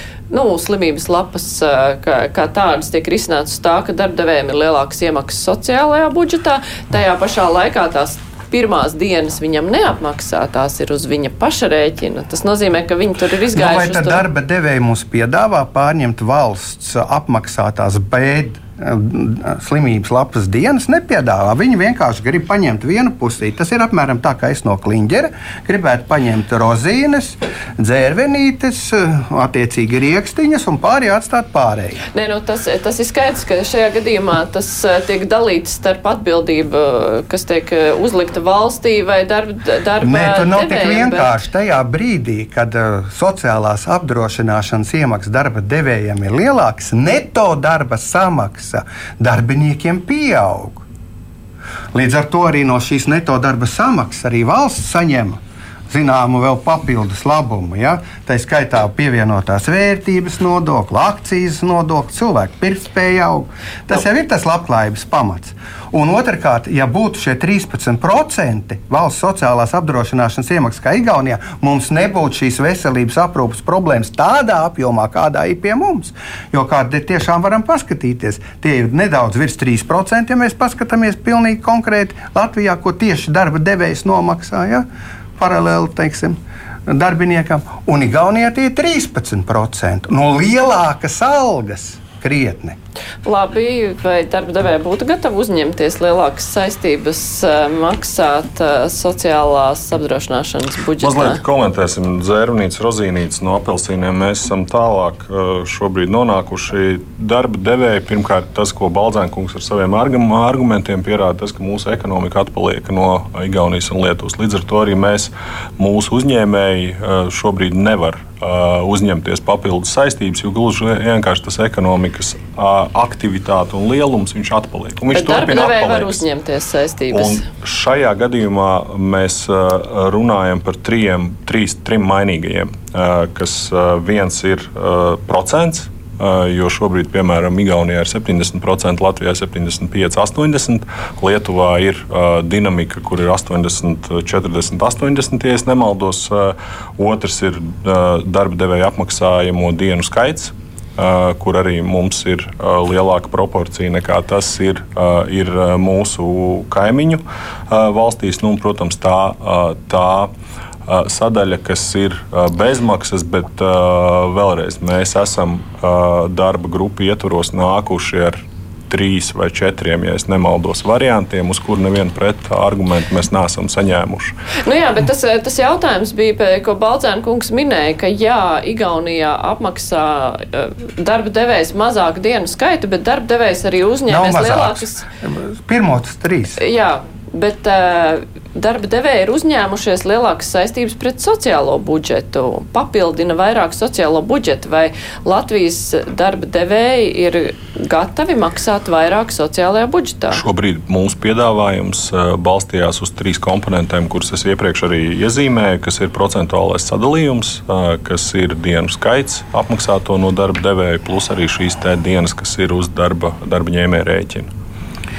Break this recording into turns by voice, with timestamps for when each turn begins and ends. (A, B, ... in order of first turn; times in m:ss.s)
0:00.3-0:14.2 A
0:13.5-0:32.0 B
0:32.1-0:41.4 A
0:40.0-0:50.8 B
0:51.9-0:55.4 B
0:55.9-1:24.8 B
1:25.4-1:32.8 B
1:33.2-1:41.4 A
1:41.0-2:06.2 C
2:05.1-2:07.4 A
2:07.1-2:40.3 C
2:40.9-2:54.3 C
2:54.6-3:05.0 A
3:04.1-3:06.6 B
3:06.6-3:20.4 A
3:20.3-3:34.5 C